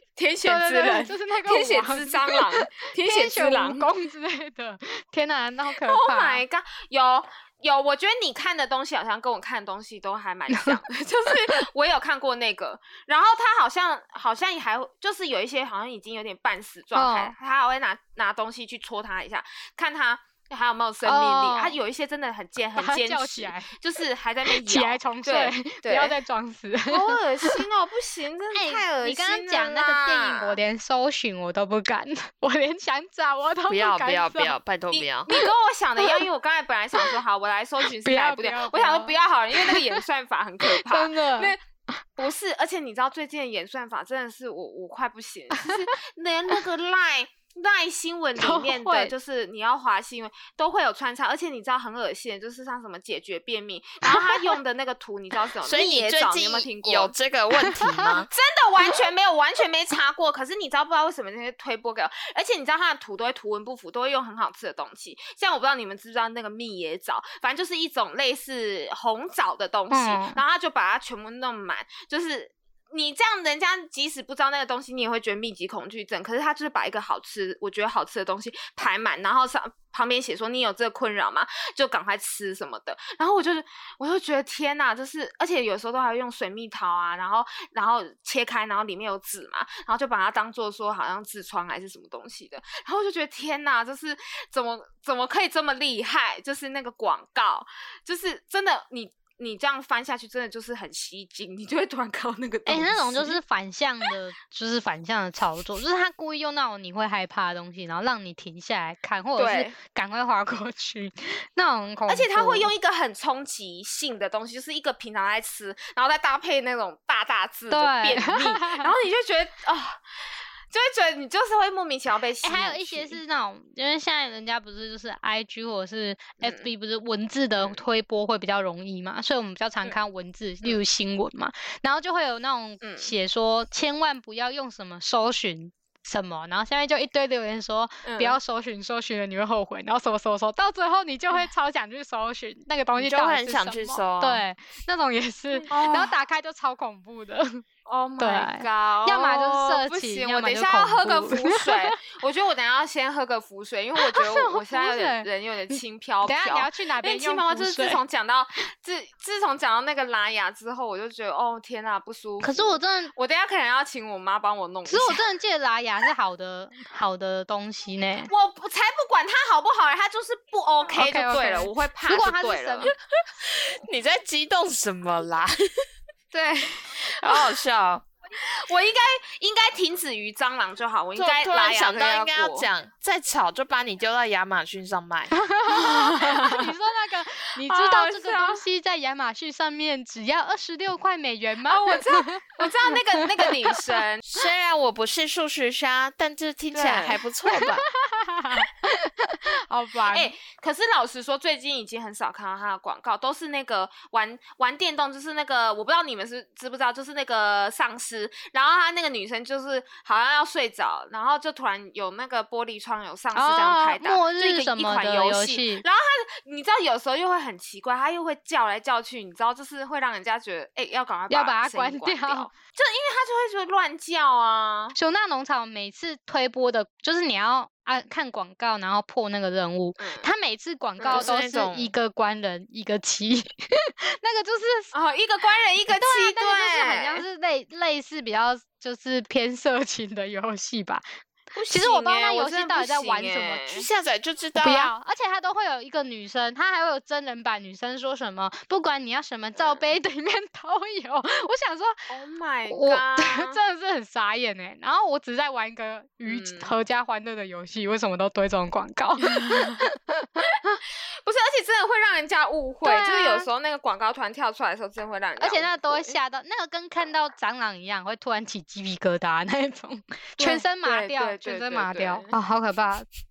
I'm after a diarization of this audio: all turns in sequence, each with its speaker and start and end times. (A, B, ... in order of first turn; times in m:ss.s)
0:00.2-0:03.8 A
0:00.4-0:06.4 B
0:05.8-0:26.2 A
0:10.5-0:10.8 B
0:11.3-0:11.6 B
0:16.9-0:17.3 B
0:21.0-0:21.8 B
0:22.8-0:23.7 B
0:24.5-0:27.6 B
0:26.9-0:30.6 A
0:28.5-0:34.5 B
0:33.7-0:35.3 C
0:34.9-0:41.6 A
0:35.3-0:36.2 B
0:38.0-0:40.0 B
0:40.6-0:42.2 B
0:42.2-0:57.1 A
0:45.5-0:45.9 B
0:48.4-0:49.1 B
0:54.0-0:54.6 B
0:55.6-0:58.3 C
0:58.1-1:43.4 A
1:09.9-1:10.4 B
1:42.7-1:52.7 B
1:49.4-1:49.7 A
1:52.1-2:00.0 A
1:57.7-1:58.9 B
2:00.7-2:03.2 A
2:02.4-2:27.6 B
2:06.4-2:06.7 A
2:12.8-2:13.1 A
2:18.0-2:18.4 A
2:23.0-2:24.4 C
2:25.7-2:26.1 A
2:27.8-2:45.2 A
2:28.2-2:32.0 B
2:34.0-2:38.0 B
2:42.4-2:43.1 B
2:44.8-2:48.3 B
2:48.3-2:52.9 A
2:50.9-2:52.9 B
2:53.5-2:55.7 C
2:56.3-2:57.5 A
2:57.1-2:58.0 C
2:58.4-3:02.7 A
3:01.2-3:05.3 C
3:05.4-3:13.9 B
3:05.7-3:06.7 A
3:07.6-3:08.6 A
3:11.7-3:14.3 A
3:14.3-3:17.8 C
3:16.7-3:17.2 A
3:17.5-3:20.3 B
3:20.1-3:45.0 A
3:33.3-3:35.8 B
3:41.3-3:42.5 B
3:44.9-3:54.9 B
3:50.0-3:50.3 A
3:51.0-3:51.3 A
3:51.1-3:51.9 C
3:54.9-3:57.2 A
3:55.9-4:01.0 B
4:01.5-4:03.8 A
4:01.7-4:03.7 B
4:03.7-4:04.9 C
4:04.6-4:12.1 B
4:09.6-4:09.8 A
4:12.1-4:13.6 A
4:12.7-4:20.7 B
4:16.2-4:16.7 A
4:19.2-4:19.8 A
4:20.5-4:26.2 A
4:22.8-4:23.5 B
4:25.4-4:33.1 B
4:30.4-4:32.3 A